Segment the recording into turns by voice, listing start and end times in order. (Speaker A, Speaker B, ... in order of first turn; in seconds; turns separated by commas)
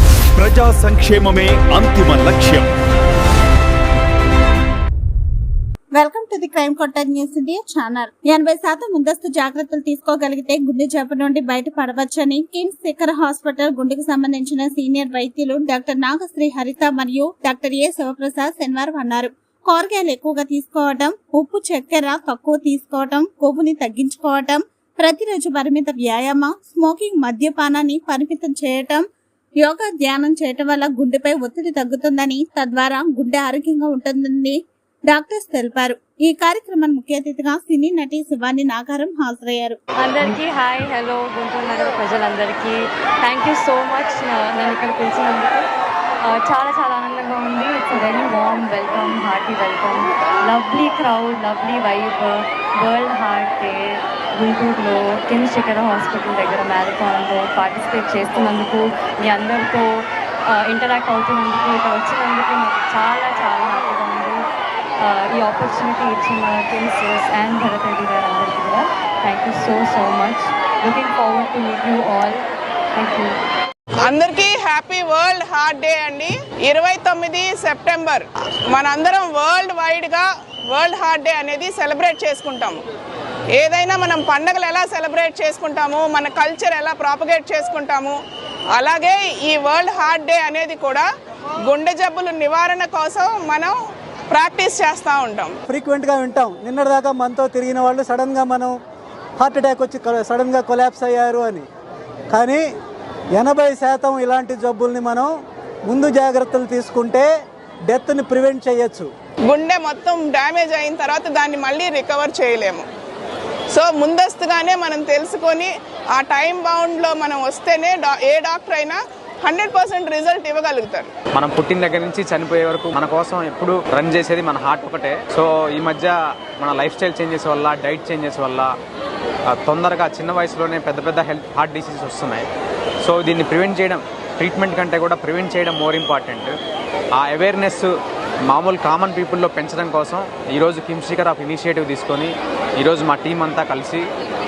Speaker A: 0.4-2.6, Speaker B: 5.9-29.1, Speaker B: 29.6-39.8, Speaker C: 40.0-45.6, Speaker C: 46.2-64.4, Speaker C: 65.0-72.4, Speaker C: 72.9-73.3, Speaker D: 74.0-82.8, Speaker D: 83.5-88.2, Speaker D: 88.8-91.1, Speaker D: 91.7-93.8, Speaker D: 94.3-95.5, Speaker E: 95.7-98.7, Speaker E: 99.4-101.6, Speaker E: 102.3-102.6, Speaker E: 103.3-105.3, Speaker E: 105.9-107.3, Speaker E: 107.9-109.1, Speaker D: 109.5-112.8, Speaker D: 113.7-121.1, Speaker F: 121.3-128.7, Speaker F: 129.5-132.4, Speaker F: 133.0-136.5, Speaker F: 137.2-137.9, Speaker F: 138.5-144.1